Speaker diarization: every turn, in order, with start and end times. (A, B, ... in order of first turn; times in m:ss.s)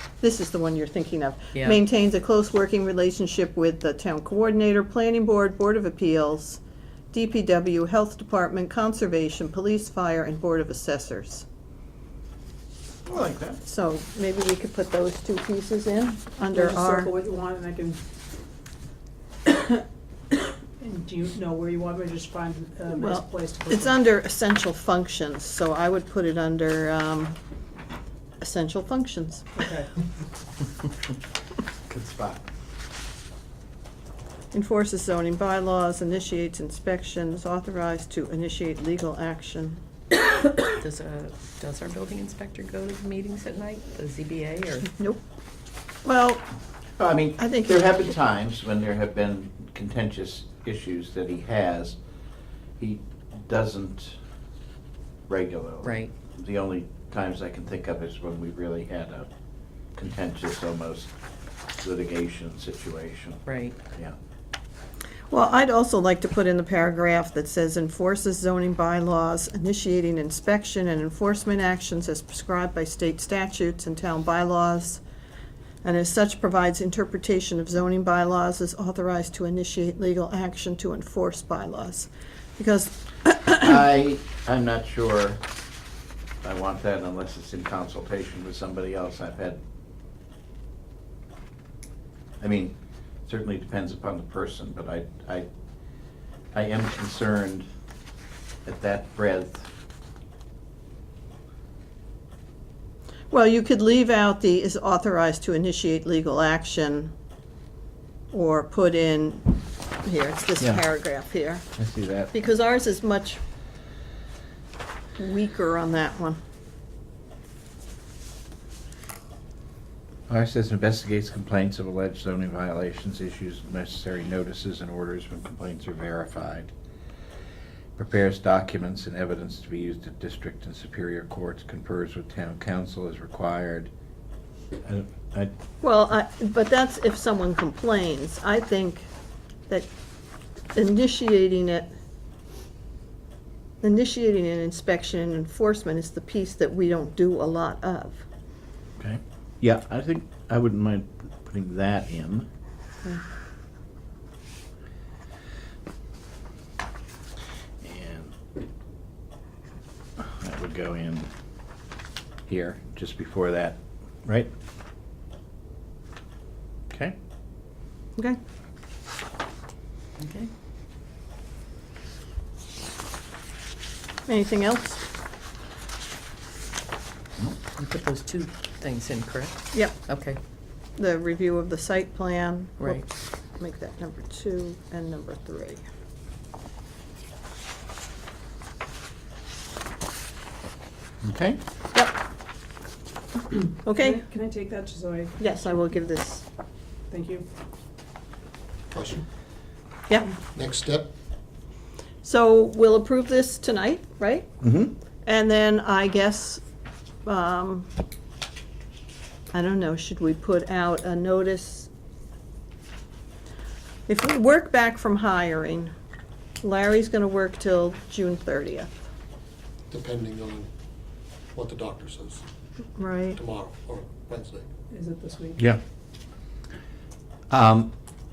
0:00.2-0:06.6 A
0:07.1-0:11.4 A
0:13.0-0:13.6 B
0:13.6-0:17.1 A
0:16.5-0:18.0 C
0:19.4-0:19.8 C
0:20.8-0:24.0 C
0:22.9-0:27.4 A
0:28.4-0:29.6 A
0:29.6-0:29.9 C
0:31.9-0:32.4 B
0:34.5-0:39.8 A
0:40.7-0:44.9 D
0:46.0-0:46.4 A
0:47.0-0:52.0 B
0:47.4-0:47.9 A
0:52.8-0:54.2 B
0:55.3-0:59.3 B
0:55.8-0:56.1 D
1:00.0-1:01.1 B
1:01.8-1:03.4 B
1:03.5-1:03.7 D
1:05.3-1:15.0 A
1:15.8-1:23.6 A
1:23.5-1:25.4 B
1:26.4-1:29.6 B
1:32.4-1:35.5 B
1:36.5-1:37.6 B
1:38.6-1:39.7 B
1:43.3-1:47.1 A
1:48.3-1:51.6 A
1:50.6-1:50.8 B
1:51.8-1:52.3 B
1:52.3-1:53.4 A
1:55.2-1:56.4 A
2:00.3-2:06.7 B
2:08.0-2:13.9 B
2:14.8-2:15.5 B
2:15.8-2:19.1 A
2:20.7-2:21.9 A
2:23.8-2:28.2 A
2:29.0-2:32.5 B
2:37.8-2:38.3 B
2:40.2-2:41.3 B
2:42.5-2:44.5 B
2:50.2-2:50.5 D
2:54.3-2:55.0 A
2:57.8-3:00.4 D
3:01.0-3:03.0 A
3:02.8-3:03.0 D
3:03.6-3:05.8 A
3:11.2-3:11.6 B
3:13.8-3:14.2 A
3:14.0-3:15.4 C
3:15.4-3:16.4 A
3:17.1-3:17.4 C
3:18.9-3:19.2 E
3:20.5-3:21.1 E
3:22.2-3:24.5 A
3:24.6-3:24.9 B
3:25.2-3:26.6 A
3:27.2-3:27.9 A
3:29.5-3:31.9 A
3:34.1-3:35.9 A
3:36.6-3:38.9 A
3:39.9-3:40.7 E
3:41.5-3:42.4 E
3:43.0-3:43.4 A
3:43.4-3:44.6 E
3:44.9-3:45.6 C
3:47.5-3:47.9 B